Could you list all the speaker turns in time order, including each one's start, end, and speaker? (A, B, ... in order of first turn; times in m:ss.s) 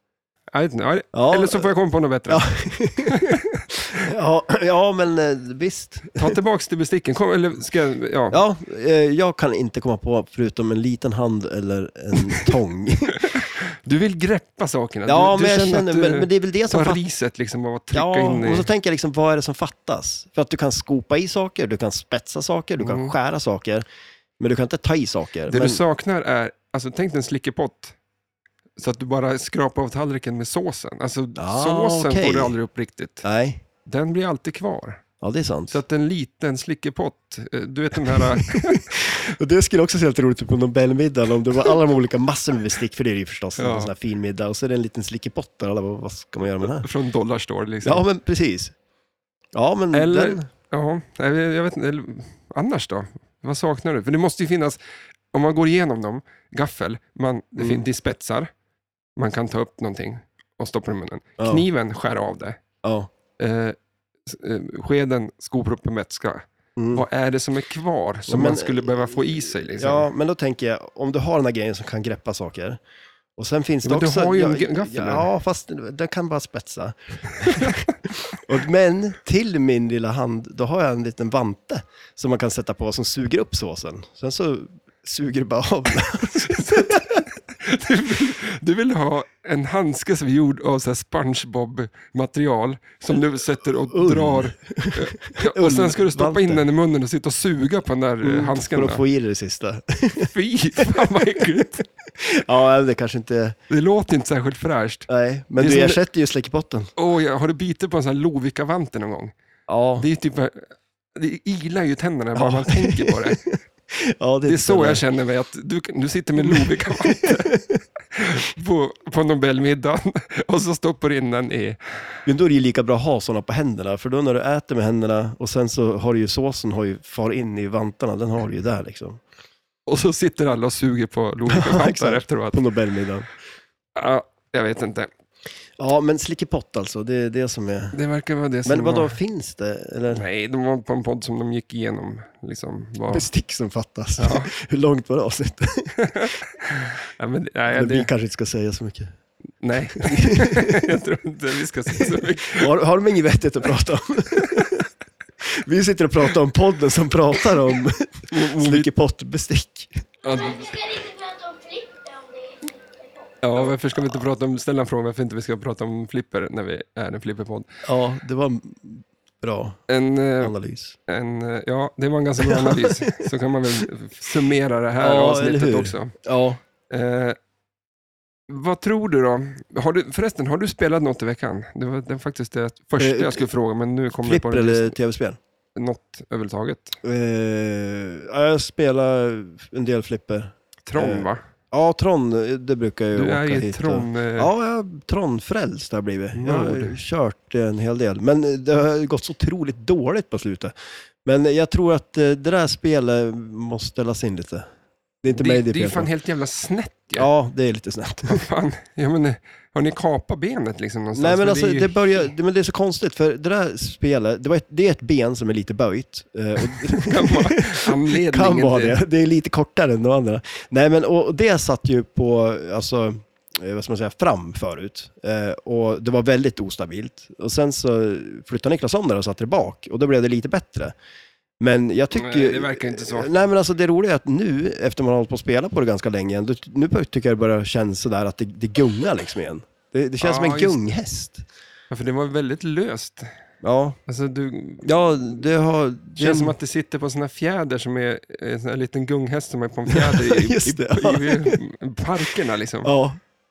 0:00.5-0:02.5 A
0:01.1-0:01.7 B
0:02.3-0:06.3 B
0:03.0-0:03.6 A
0:06.2-0:08.4 A
0:08.3-0:13.3 B
0:13.2-0:18.7 A
0:15.1-0:17.0 B
0:17.9-0:23.8 B
0:22.8-0:23.1 A
0:24.4-0:25.8 B
0:25.5-0:28.0 A
0:28.8-0:33.2 A
0:31.4-0:32.5 B
0:33.2-0:33.6 B
0:33.8-0:35.0 A
0:35.2-0:35.8 B
0:35.7-0:38.9 A
0:38.0-0:46.9 B
0:43.6-0:43.9 A
0:46.6-0:48.0 A
0:47.8-0:48.8 B
0:49.5-0:50.5 B
0:49.9-0:54.8 A
0:55.3-0:58.5 A
0:57.6-0:57.8 B
0:59.2-1:02.6 A
1:01.4-1:01.6 B
1:02.8-1:03.1 B
1:03.4-1:10.1 A
1:06.8-1:07.0 B
1:08.2-1:12.8 B
1:13.4-1:27.2 B
1:13.8-1:15.3 A
1:17.4-1:17.8 A
1:26.4-1:39.0 A
1:33.9-1:36.6 B
1:38.2-1:41.7 B
1:40.2-1:41.8 A
1:42.2-1:43.6 B
1:43.7-1:46.0 A
1:45.1-1:46.9 B
1:47.0-1:49.3 A
1:49.7-1:50.1 B
1:50.0-1:53.4 A
1:52.4-1:55.0 B
1:54.4-1:57.5 A
1:56.4-1:57.8 B
1:58.1-2:01.8 A
2:02.2-2:09.2 B
2:09.9-2:12.6 A
2:11.5-2:13.3 B
2:14.0-2:15.1 A
2:15.8-2:18.0 B
2:17.9-2:19.2 A
2:18.6-2:20.2 B
2:20.1-2:23.3 A
2:23.1-2:26.1 B
2:24.2-2:24.5 A
2:26.0-2:28.1 A
2:27.7-2:29.1 B
2:29.6-2:32.7 A
2:30.0-2:30.9 B
2:32.0-2:34.9 B
2:34.4-2:34.8 A
2:35.4-2:40.0 B
2:38.3-2:38.9 A
2:40.2-2:40.8 A
2:40.3-2:43.3 C
2:43.4-2:47.7 A
2:47.8-2:49.8 B
2:49.9-2:50.5 A
2:50.4-2:51.0 B
2:51.1-2:56.1 A
2:52.4-2:53.3 B
2:55.0-2:56.6 B
2:56.9-2:57.4 A
2:58.5-3:05.0 A
3:03.0-3:03.4 B
3:04.2-3:05.4 B
3:05.7-3:07.0 A
3:07.0-3:20.7 B
3:10.8-3:11.4 A
3:13.1-3:14.5 A
3:16.3-3:17.0 A
3:21.2-3:24.6 B
3:25.2-3:26.1 B
3:25.3-3:27.3 A
3:27.1-3:28.4 B
3:28.3-3:32.2 A
3:31.1-3:50.9 B
3:36.6-3:39.0 A
3:51.6-4:01.4 B
3:52.1-3:53.3 A
4:00.2-4:00.8 A
4:01.9-4:03.3 A
4:03.6-4:04.0 B
4:04.1-4:05.1 A
4:04.8-4:06.5 B
4:06.2-4:12.9 A
4:09.9-4:11.6 B
4:12.8-4:13.2 B